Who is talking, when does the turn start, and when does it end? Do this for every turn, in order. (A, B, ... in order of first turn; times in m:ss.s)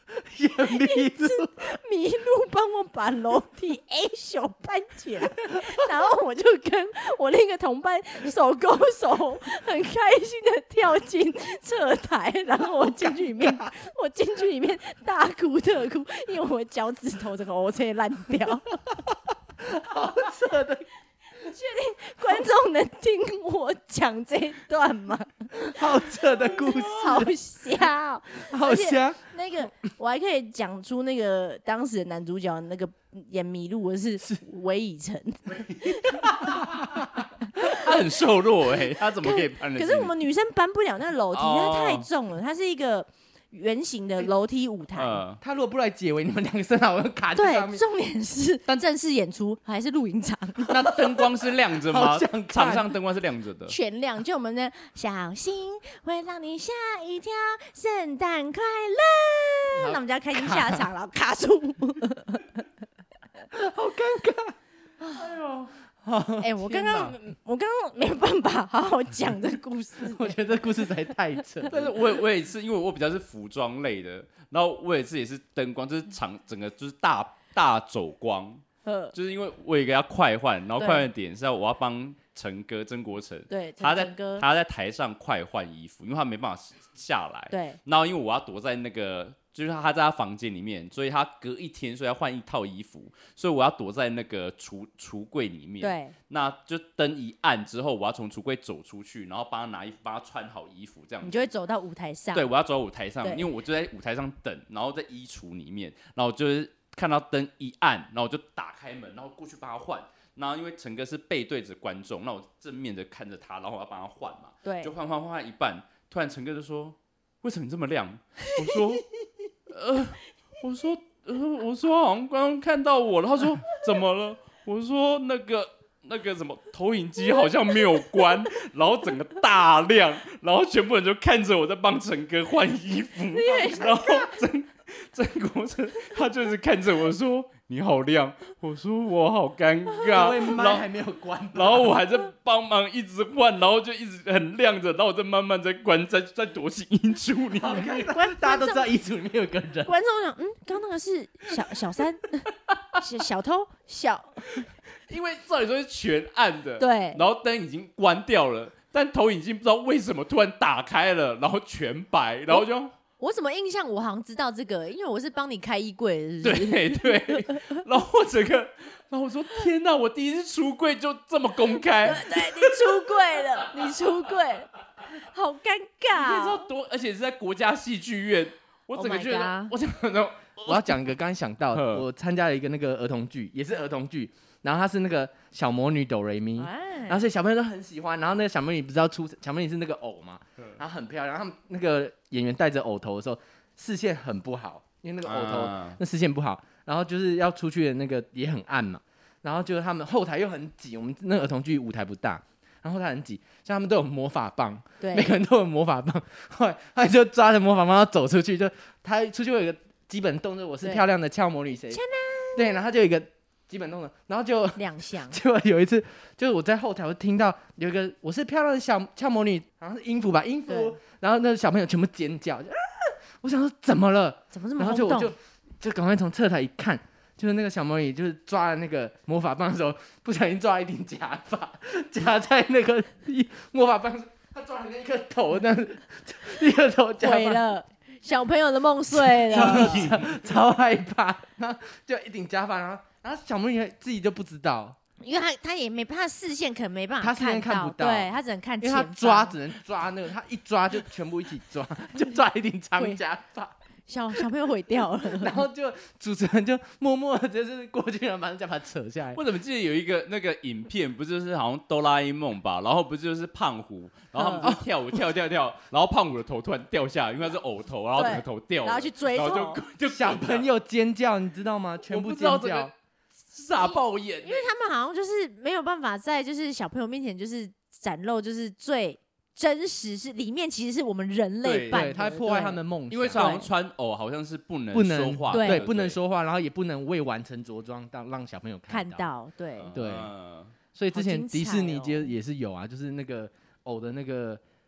0:00.2-0:01.7 A
0:00.6-0:18.8 B
0:19.6-0:20.9 A
0:21.4-0:36.7 B
0:25.6-0:27.3 A
0:28.5-0:29.2 A
0:36.1-0:37.2 A
0:37.5-0:37.9 B
0:37.6-0:40.1 C
0:39.2-0:45.2 B
0:41.3-0:42.1 C
0:45.0-0:45.4 C
0:45.4-0:47.8 A
0:47.4-0:50.8 B
0:50.7-0:53.8 C
0:50.7-0:51.2 A
0:51.8-0:52.9 A
0:53.7-1:02.6 B
0:59.7-1:00.9 A
1:03.5-1:04.6 A
1:05.0-1:05.3 B
1:05.2-1:07.2 A
1:06.4-1:10.4 B
1:10.0-1:12.0 A
1:11.7-1:41.5 C
1:18.8-1:19.1 B
1:20.8-1:21.1 B
1:23.5-1:24.4 B
1:27.5-1:27.8 B
1:35.8-1:36.1 B
1:41.2-1:42.5 B
1:42.3-1:59.1 C
1:43.2-1:43.5 B
1:54.6-1:54.9 B
1:59.7-2:20.9 C
2:13.3-2:14.3 B
2:20.1-2:22.0 A
2:21.5-2:28.0 C
2:27.5-2:29.9 A
2:27.8-2:28.9 B
2:29.8-2:34.4 B
2:35.1-2:42.9 C
2:36.8-2:37.2 B
2:43.2-2:47.8 B
2:46.4-2:53.0 C
2:52.0-2:56.7 B
2:56.1-3:01.0 C
2:59.0-2:59.7 B
3:00.7-3:32.0 A
3:01.7-3:02.1 C
3:06.6-3:07.2 B
3:15.2-3:16.0 C
3:25.0-3:25.3 B
3:31.9-3:32.7 B
3:32.6-3:57.6 A
3:34.8-3:35.4 B
3:40.7-3:41.0 B
3:44.5-3:45.3 B
3:57.2-4:00.1 B
3:59.4-4:05.0 A
3:59.5-4:00.4 C
4:05.2-4:09.6 B
4:07.2-4:13.8 A
4:14.1-4:15.6 B
4:15.4-4:19.4 A
4:19.3-4:30.7 C
4:24.3-4:24.8 B
4:28.2-4:29.8 B
4:30.1-4:32.9 A
4:32.1-4:32.9 C
4:33.5-4:34.7 C
4:33.8-4:42.8 B
4:41.6-4:42.2 C
4:41.9-4:43.6 A
4:43.1-4:46.2 C
4:43.3-4:43.7 B
4:44.9-4:49.2 A
4:45.5-4:45.8 B
4:48.9-4:49.9 B
4:49.8-4:50.8 C
4:49.9-4:50.3 A
4:50.9-4:54.6 A
4:51.1-4:52.4 B